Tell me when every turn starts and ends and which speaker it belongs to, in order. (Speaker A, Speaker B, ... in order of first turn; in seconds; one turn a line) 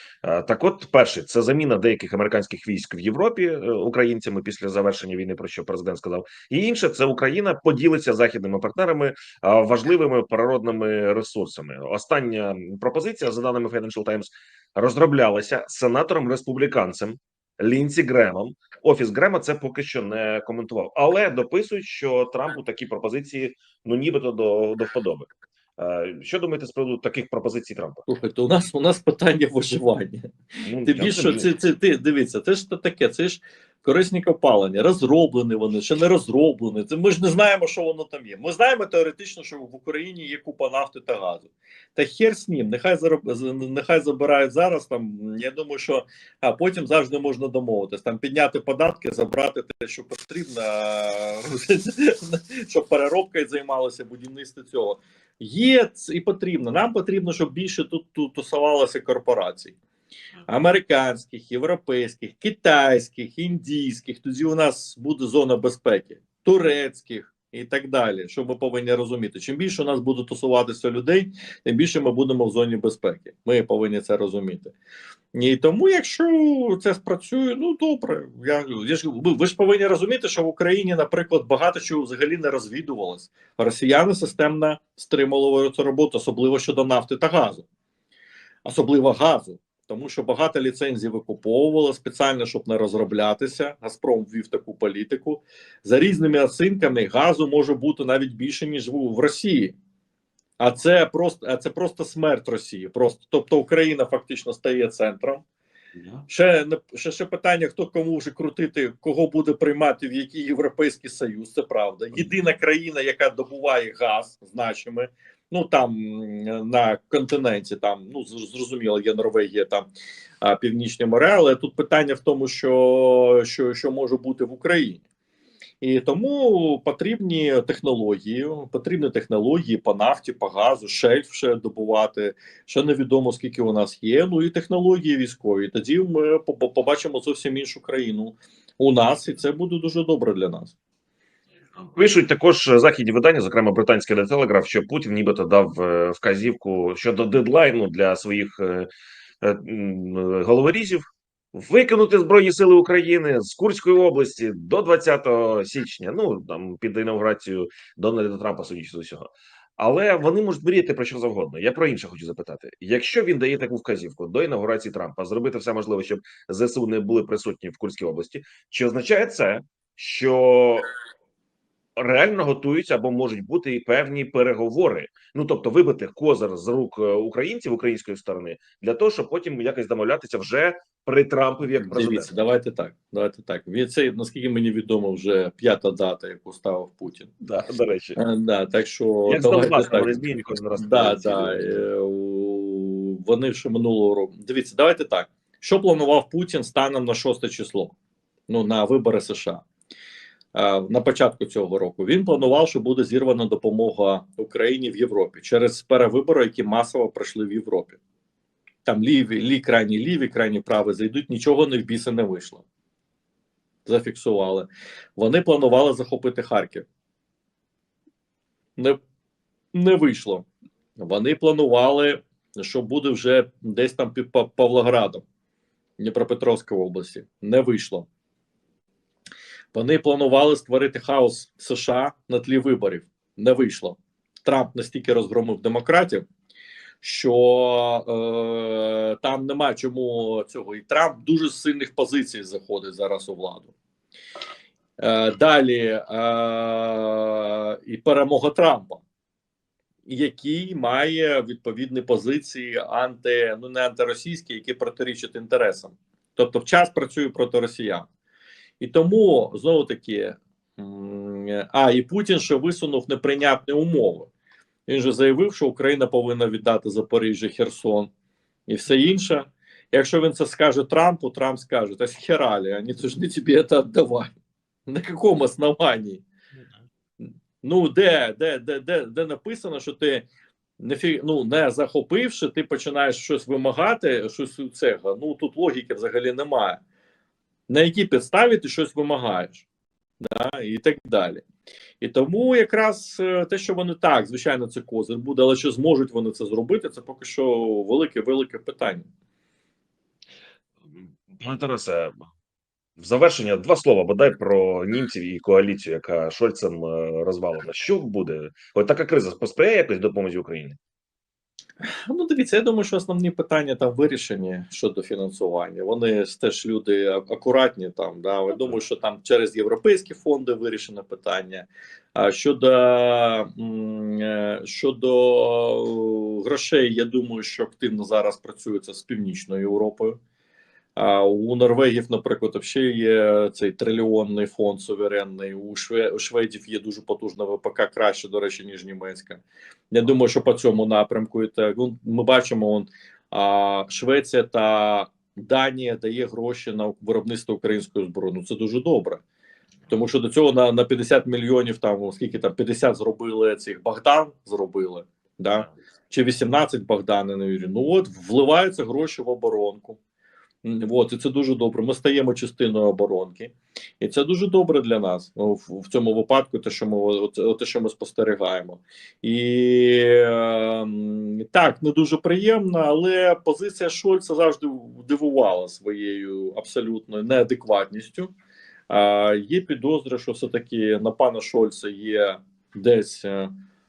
Speaker A: 0.2-28.0
Speaker B: 28.1-30.3
Speaker A: 30.7-31.5
Speaker B: 30.8-59.8
Speaker B: 60.5-74.7
Speaker B: 75.3-87.7
Speaker B: 88.7-99.7
Speaker B: 100.6-105.4
Speaker A: 106.0-106.2
Speaker B: 106.3-119.9
Speaker B: 120.4-125.0
Speaker B: 125.8-140.7
Speaker A: 141.8-148.9
Speaker A: 149.4-170.9
Speaker A: 172.0-182.3
Speaker B: 181.8-187.3
Speaker A: 187.4-188.2
Speaker B: 188.2-190.2
Speaker A: 189.3-191.8
Speaker B: 190.7-197.9
Speaker B: 198.5-199.6
Speaker B: 200.5-208.0
Speaker B: 208.9-212.6
Speaker B: 213.9-216.9
Speaker B: 219.7-220.4
Speaker B: 221.0-225.2
Speaker B: 226.0-228.1
Speaker B: 229.7-236.3
Speaker B: 237.0-243.7
Speaker B: 245.0-249.0
Speaker B: 250.1-258.1
Speaker B: 258.8-264.3
Speaker B: 264.9-268.1
Speaker B: 268.7-274.3
Speaker B: 274.9-276.2
Speaker B: 277.6-280.3
Speaker B: 280.8-286.8
Speaker B: 287.7-289.6
Speaker B: 290.2-291.4
Speaker B: 292.0-299.1
Speaker A: 301.3-302.1
Speaker A: 303.0-310.8
Speaker B: 311.8-330.2
Speaker B: 331.0-349.2
Speaker B: 349.9-360.0
Speaker B: 360.6-378.3
Speaker B: 378.9-383.5